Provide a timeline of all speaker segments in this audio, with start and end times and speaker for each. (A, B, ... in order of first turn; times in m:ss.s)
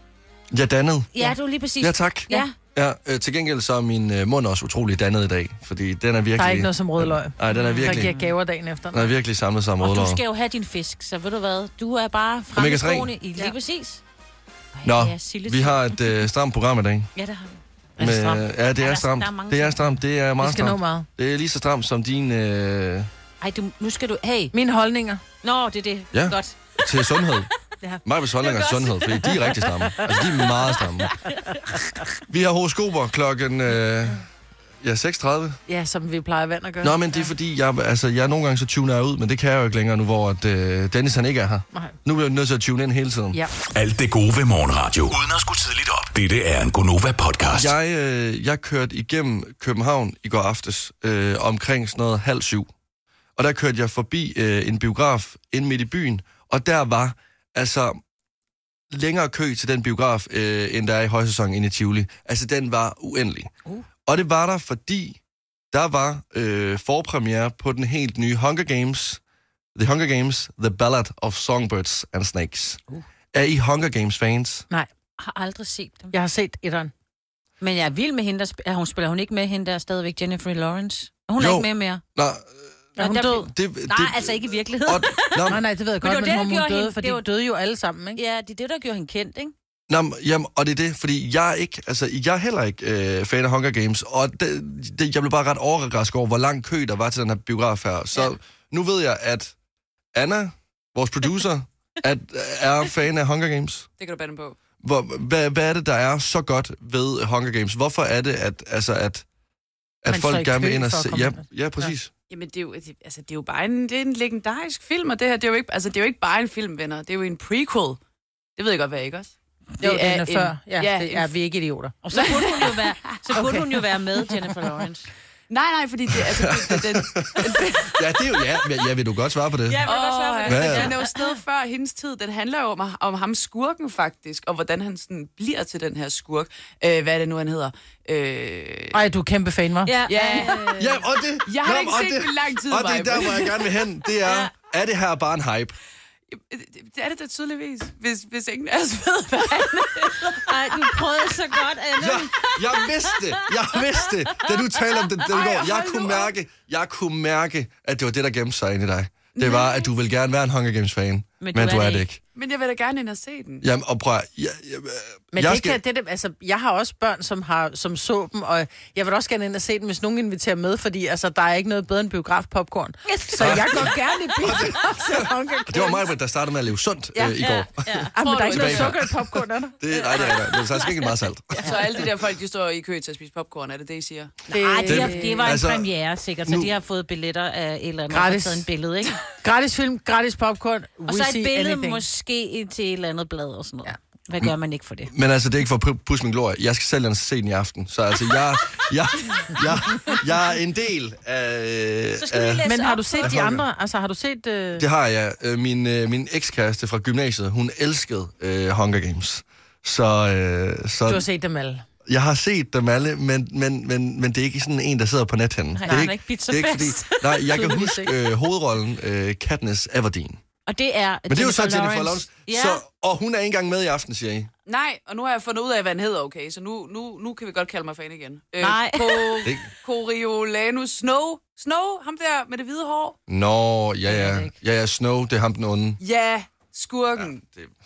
0:00.5-0:01.1 A
0:01.1-0:02.6 B
0:01.8-0:08.1 A
0:06.4-0:09.1 C
0:07.5-0:08.3 B
0:08.9-0:10.2 A
0:09.8-0:14.0 B
0:12.6-0:13.1 A
0:14.7-0:16.2 B
0:14.8-0:17.1 A
0:17.2-0:17.6 B
0:18.0-0:18.4 C
0:18.0-0:23.1 A
0:18.8-0:20.0 B
0:20.4-0:21.1 C
0:23.4-0:24.5 B
0:24.5-0:25.2 C
0:25.4-0:26.9 B
0:26.1-0:27.5 A
0:28.0-0:31.1 A
0:28.4-0:29.6 B
0:31.0-0:31.3 B
0:32.3-0:34.2 A
0:34.8-0:35.6 A
0:35.7-0:37.2 C
0:36.8-0:43.4 A
0:43.7-0:47.8 D
0:47.5-0:52.7 A
0:53.4-0:58.0 A
0:58.9-1:03.5 A
1:04.1-1:05.2 A
1:05.7-1:09.2 A
1:09.8-1:12.8 A
1:13.3-1:14.6 A
1:15.2-1:16.1 B
1:16.1-1:16.9 C
1:17.6-1:22.0 B
1:21.4-1:22.7 A
1:23.0-1:23.5 C
1:23.0-1:27.2 B
1:23.3-1:25.6 A
1:25.5-1:28.2 C
1:28.2-1:29.5 B
1:29.9-1:39.5 A
1:40.1-1:43.9 A
1:44.0-1:44.6 E
1:44.8-1:49.2 A
1:50.0-1:52.1 A
1:50.1-1:51.9 C
1:52.3-1:58.0 E
1:58.6-2:01.3 E
1:59.8-2:02.0 C
2:02.0-2:05.1 B
2:02.1-2:03.3 E
2:03.3-2:03.7 C
2:04.4-2:04.7 C
2:05.5-2:08.4 E
2:06.2-2:09.8 A
2:09.7-2:11.4 B
2:09.8-2:19.0 E
2:10.5-2:10.9 A
2:18.9-2:19.9 C
2:19.9-2:21.0 B
2:20.1-2:20.8 E
2:20.8-2:25.8 A
2:21.4-2:23.7 E
2:26.3-2:31.0 E
2:30.3-2:33.2 B
2:32.0-2:42.2 A
2:35.4-2:36.3 E
2:39.4-2:39.9 E
2:41.4-2:42.1 B
2:42.4-2:43.6 E
2:43.6-2:45.8 A
2:45.3-2:56.1 C
2:53.1-2:53.9 B
2:53.4-2:59.1 A
2:57.2-2:58.1 B
2:58.2-2:59.8 C
2:58.2-2:59.0 E
2:59.8-3:01.8 A
3:00.5-3:01.8 B
3:01.6-3:04.3 E
3:04.5-3:05.5 C
3:04.5-3:09.2 B
3:04.9-3:05.9 A
3:06.5-3:06.7 A
3:08.1-3:08.6 C
3:09.3-3:12.0 C
3:11.1-3:15.1 B
3:15.1-3:22.6 A
3:22.2-3:23.3 B
3:22.7-3:24.8 C
3:23.2-3:23.6 A
3:24.8-3:31.2 A
3:31.1-3:31.8 C
3:32.1-3:40.4 A
3:35.8-3:37.4 B
3:37.5-3:38.1 C
3:40.7-3:42.8 B
3:41.3-3:44.5 A
3:44.7-3:53.2 E
3:48.6-3:49.5 B
3:49.4-3:49.7 A
3:53.3-3:56.0 A
3:54.1-3:54.5 B
3:56.0-3:57.4 E
3:57.2-3:57.7 A